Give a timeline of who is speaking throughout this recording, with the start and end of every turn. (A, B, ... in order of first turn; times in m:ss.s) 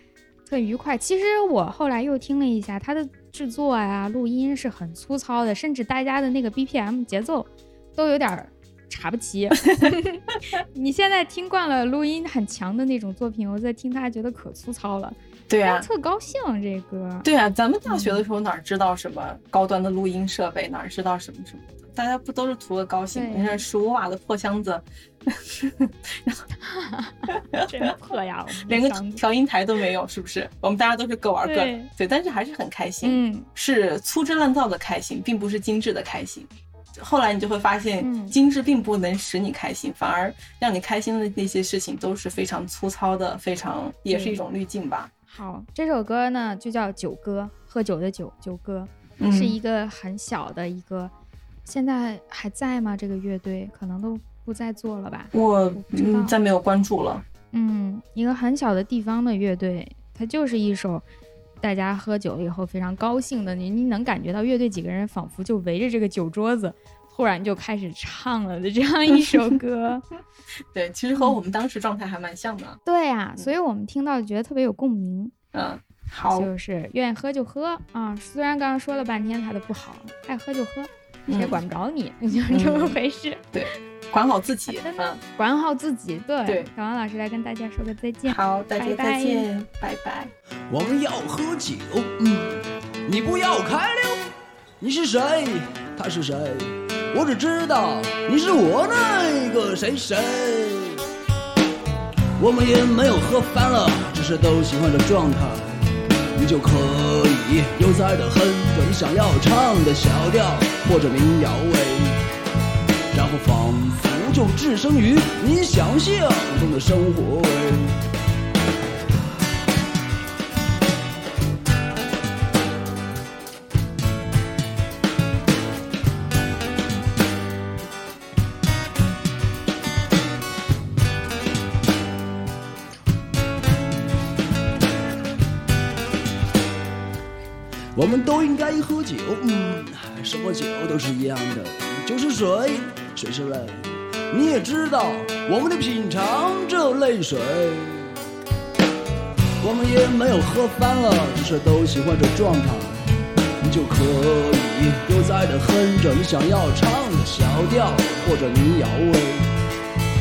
0:00.4-0:17.3 A
0:09.6-0:10.0 B
0:15.5-0:15.9 B
0:17.2-0:26.4 B
0:17.9-0:18.2 A
0:23.1-0:23.6 A
0:26.6-0:29.2 A
0:27.3-0:27.9 B
0:28.7-0:45.1 B
0:31.4-0:31.9 A
0:33.0-0:33.5 A
0:38.0-0:38.4 A
0:44.1-0:44.4 A
0:45.3-0:51.1 A
0:49.2-0:49.6 B
0:51.6-0:56.3 A
0:55.3-0:57.2 B
0:57.5-1:01.0 A
1:01.6-1:10.0 A
1:10.7-1:12.8 B
1:12.8-1:15.3 A
1:15.5-1:16.5 B
1:16.3-1:23.7 A
1:21.3-1:21.6 B
1:22.5-1:23.0 B
1:23.5-1:25.2 B
1:24.7-1:29.5 A
1:28.3-1:30.3 B
1:30.7-1:41.0 C
1:42.4-1:45.6 C
1:46.4-1:52.2 C
1:53.1-1:58.0 C
2:17.9-2:28.1 C
2:29.6-2:33.0 C
2:33.6-2:39.5 C